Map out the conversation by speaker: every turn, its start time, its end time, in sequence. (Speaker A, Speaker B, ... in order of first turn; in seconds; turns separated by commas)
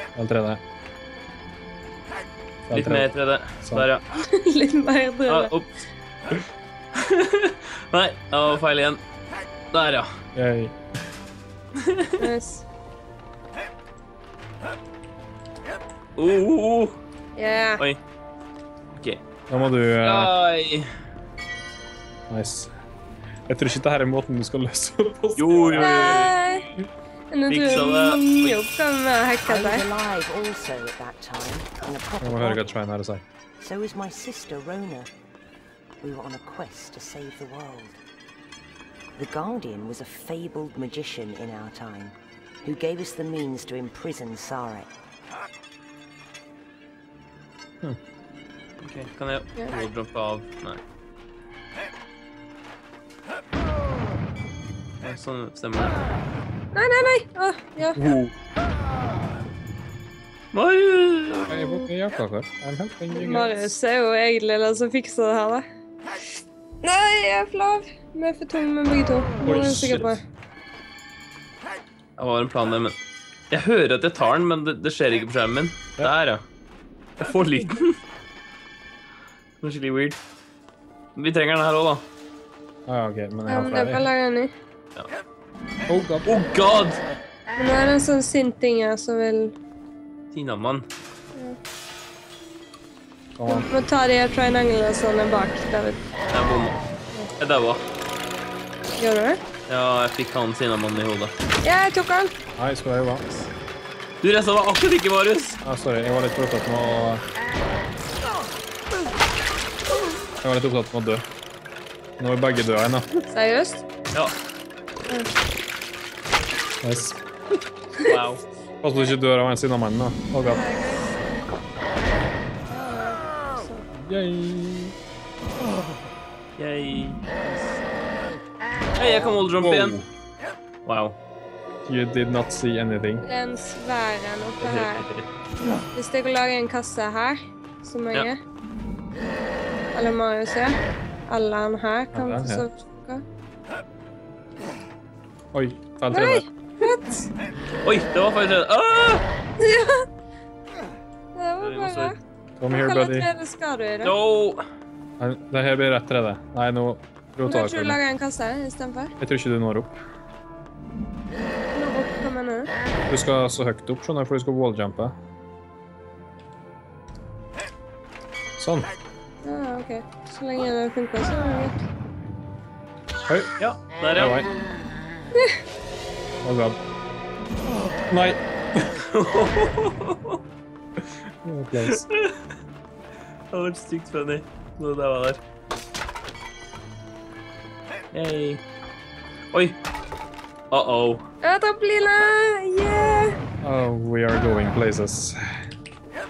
Speaker A: 0.2-0.6, Speaker A: 2.7-3.1, Speaker B: 2.7-4.0, Speaker A: 3.6-3.9, Speaker C: 4.3-5.5, Speaker B: 5.3-5.8, Speaker B: 6.9-9.0, Speaker B: 9.7-10.2, Speaker A: 10.3-10.8, Speaker B: 11.8-12.2, Speaker C: 12.2-12.6, Speaker B: 16.2-17.0, Speaker C: 17.4-17.8, Speaker B: 18.9-19.2, Speaker A: 19.5-20.3, Speaker B: 20.0-20.9, Speaker A: 22.3-22.7, Speaker A: 23.5-26.3, Speaker B: 25.4-26.4, Speaker C: 25.8-26.7, Speaker C: 27.3-29.9, Speaker B: 27.5-28.6, Speaker D: 29.4-32.8, Speaker A: 32.2-33.2, Speaker D: 33.6-35.1, Speaker D: 36.0-38.0, Speaker D: 39.2-44.9, Speaker B: 48.8-50.8, Speaker B: 55.0-56.0, Speaker C: 56.7-58.0, Speaker B: 58.0-58.3, Speaker B: 60.5-61.6, Speaker A: 61.5-63.7, Speaker C: 61.6-61.9, Speaker C: 63.1-65.7, Speaker C: 66.8-70.2, Speaker A: 69.5-70.1, Speaker B: 72.2-73.0, Speaker B: 73.5-76.5, Speaker B: 77.2-78.0, Speaker B: 79.6-80.2, Speaker B: 81.2-82.0, Speaker A: 82.9-84.1, Speaker C: 83.5-84.5, Speaker A: 85.9-86.3, Speaker B: 86.2-87.0, Speaker C: 87.6-89.5, Speaker B: 90.3-90.9, Speaker A: 93.4-93.7, Speaker C: 93.5-96.0, Speaker B: 96.3-96.8, Speaker B: 97.4-97.8, Speaker C: 99.0-99.4, Speaker B: 99.7-101.3, Speaker C: 101.6-102.3, Speaker A: 102.6-103.3, Speaker B: 104.2-105.6, Speaker A: 105.6-107.2, Speaker A: 110.4-111.2, Speaker A: 112.2-113.1, Speaker C: 113.3-113.8, Speaker A: 116.8-117.2, Speaker B: 118.0-118.4, Speaker A: 118.8-120.6, Speaker C: 120.5-121.2, Speaker C: 122.7-123.9, Speaker A: 123.9-125.0, Speaker B: 126.6-127.8, Speaker B: 129.0-130.0, Speaker A: 129.6-130.1, Speaker B: 130.8-131.2, Speaker A: 131.9-133.2, Speaker C: 133.2-135.1, Speaker B: 134.6-135.3, Speaker C: 135.9-138.4, Speaker C: 139.9-143.2, Speaker A: 142.1-142.7, Speaker A: 145.5-146.5, Speaker C: 146.1-147.3, Speaker B: 147.8-149.2, Speaker C: 149.6-150.1, Speaker C: 151.3-154.1, Speaker B: 151.6-152.2, Speaker A: 152.6-153.3, Speaker B: 154.0-154.6, Speaker A: 155.2-158.0, Speaker C: 157.5-159.1, Speaker A: 159.2-159.9, Speaker C: 161.8-162.7, Speaker A: 163.1-165.2, Speaker A: 168.6-168.9, Speaker C: 169.4-171.9, Speaker A: 173.3-173.5, Speaker B: 173.6-174.4, Speaker A: 174.2-174.5, Speaker A: 176.4-176.8, Speaker A: 178.1-178.9, Speaker B: 179.0-180.4, Speaker A: 181.0-182.0, Speaker B: 181.8-182.5, Speaker B: 183.5-185.4, Speaker B: 188.1-188.6, Speaker B: 189.5-189.8, Speaker B: 190.7-191.3, Speaker C: 191.4-193.4, Speaker A: 193.6-195.4